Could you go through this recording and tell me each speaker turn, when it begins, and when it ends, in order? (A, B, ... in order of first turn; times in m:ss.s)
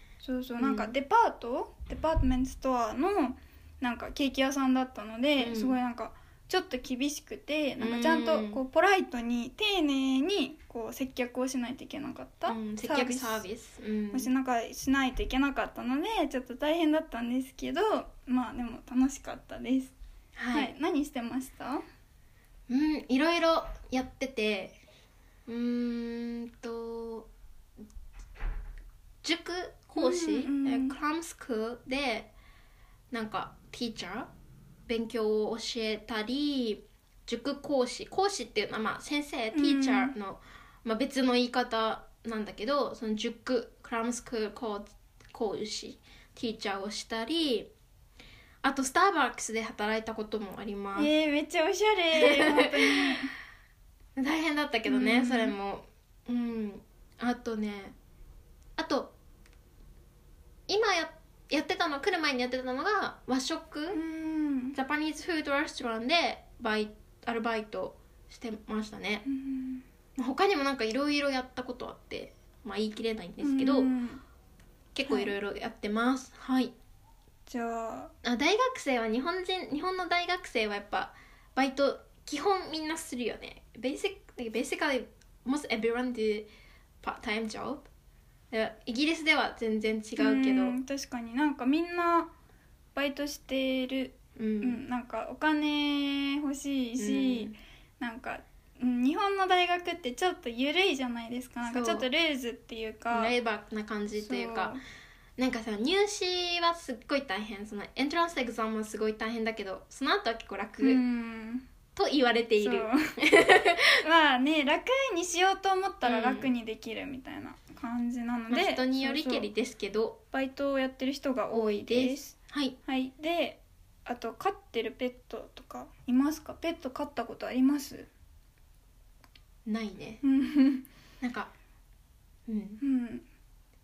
0:00.2-0:13.4 A
0:00.6-0:00.9 B
0:05.4-0:05.8 B
0:07.8-0:08.6 B
0:12.5-0:14.3 B
0:14.1-0:19.9 A
0:20.4-0:20.7 B
0:20.5-0:21.8 A
0:22.7-0:24.8 B
0:25.5-0:27.3 B
0:29.2-0:32.3 B
0:30.0-0:31.0 A
0:33.1-0:34.3 B
0:34.9-0:47.7 B
0:39.5-0:40.1 A
0:48.6-0:51.1 B
0:51.0-0:53.3 A
0:52.2-0:53.2 B
0:54.2-0:58.0 B
0:54.9-0:55.6 A
0:58.8-0:59.1 B
1:00.7-1:04.0 B
1:03.9-1:04.8 A
1:04.7-1:09.2 B
1:09.3-1:09.8 A
1:10.2-1:13.9 B
1:13.4-1:14.2 A
1:14.9-1:16.7 B
1:15.1-1:15.3 A
1:17.5-1:18.1 A
1:18.2-1:26.5 B
1:27.0-1:27.8 B
1:28.5-1:30.8 B
1:30.2-1:32.3 A
1:33.0-1:43.3 A
1:34.4-1:34.8 B
1:37.0-1:37.6 B
1:41.6-1:42.1 B
1:43.1-1:44.8 B
1:44.1-1:44.8 A
1:45.4-1:51.0 B
1:50.8-1:51.6 A
1:52.0-1:54.0 B
1:52.6-1:53.1 A
1:54.0-1:59.5 A
1:56.0-1:56.5 B
1:58.5-2:00.2 B
2:00.3-2:02.3 A
2:01.5-2:02.8 B
2:02.9-2:08.1 A
2:09.7-2:10.2 B
2:10.2-2:10.9 A
2:11.2-2:11.5 B
2:12.5-2:12.8 B
2:12.8-2:13.3 A